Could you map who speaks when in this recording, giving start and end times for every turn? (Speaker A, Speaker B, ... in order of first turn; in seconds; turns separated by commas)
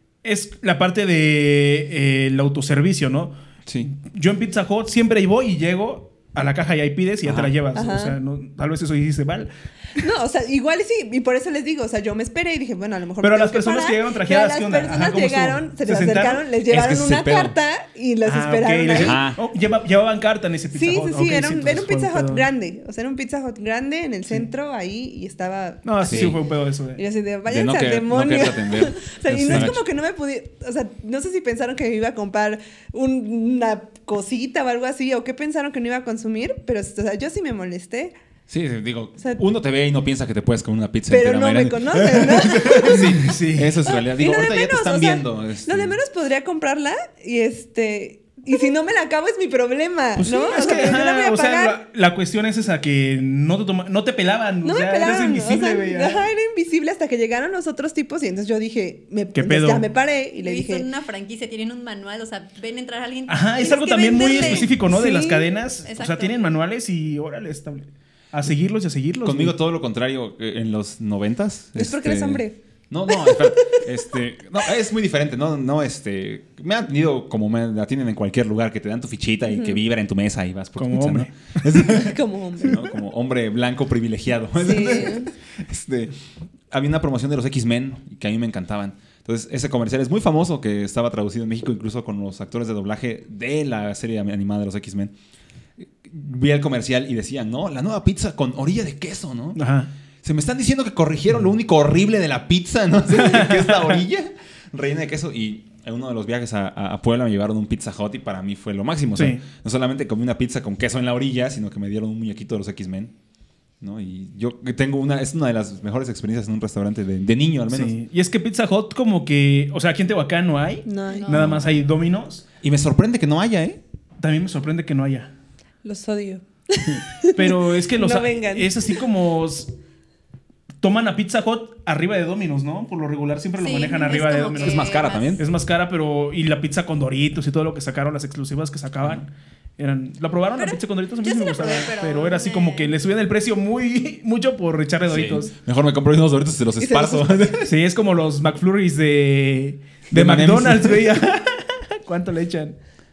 Speaker A: 0.2-9.5, Speaker B: 3.7-3.9, Speaker B: 7.2-7.5, Speaker C: 7.7-8.2, Speaker C: 10.0-19.2, Speaker A: 13.2-16.4, Speaker B: 16.7-17.6, Speaker A: 18.2-22.5, Speaker B: 18.9-19.4, Speaker C: 20.7-26.4, Speaker A: 25.8-27.0, Speaker B: 26.0-26.4, Speaker C: 27.0-38.1, Speaker B: 27.5-29.8, Speaker B: 38.5-46.0, Speaker C: 41.1-43.1, Speaker A: 42.9-43.8, Speaker C: 43.9-51.8, Speaker A: 50.2-56.3, Speaker C: 54.6-60.9, Speaker A: 59.3-59.9, Speaker D: 60.4-64.8, Speaker A: 63.3-69.5, Speaker C: 64.2-65.5, Speaker D: 65.8-66.4, Speaker B: 69.2-86.1, Speaker C: 71.8-72.6, Speaker C: 73.1-73.8, Speaker C: 79.5-79.8, Speaker A: 80.8-81.7, Speaker C: 81.8-82.9, Speaker C: 84.6-85.3, Speaker B: 86.7-95.1, Speaker B: 95.8-99.6, Speaker A: 99.5-99.9, Speaker B: 100.2-113.1, Speaker A: 103.1-104.0, Speaker A: 109.2-109.4, Speaker B: 113.8-118.0, Speaker A: 117.7-122.4, Speaker C: 120.9-121.3, Speaker D: 121.1-121.7, Speaker B: 121.3-121.6, Speaker B: 122.6-123.8, Speaker A: 124.2-125.3, Speaker C: 125.8-129.0, Speaker A: 127.3-129.7, Speaker A: 130.8-145.5, Speaker D: 133.6-135.4, Speaker B: 134.6-135.4, Speaker D: 140.6-142.9, Speaker B: 145.1-147.7, Speaker C: 146.8-147.5, Speaker A: 147.6-152.8, Speaker B: 150.1-151.2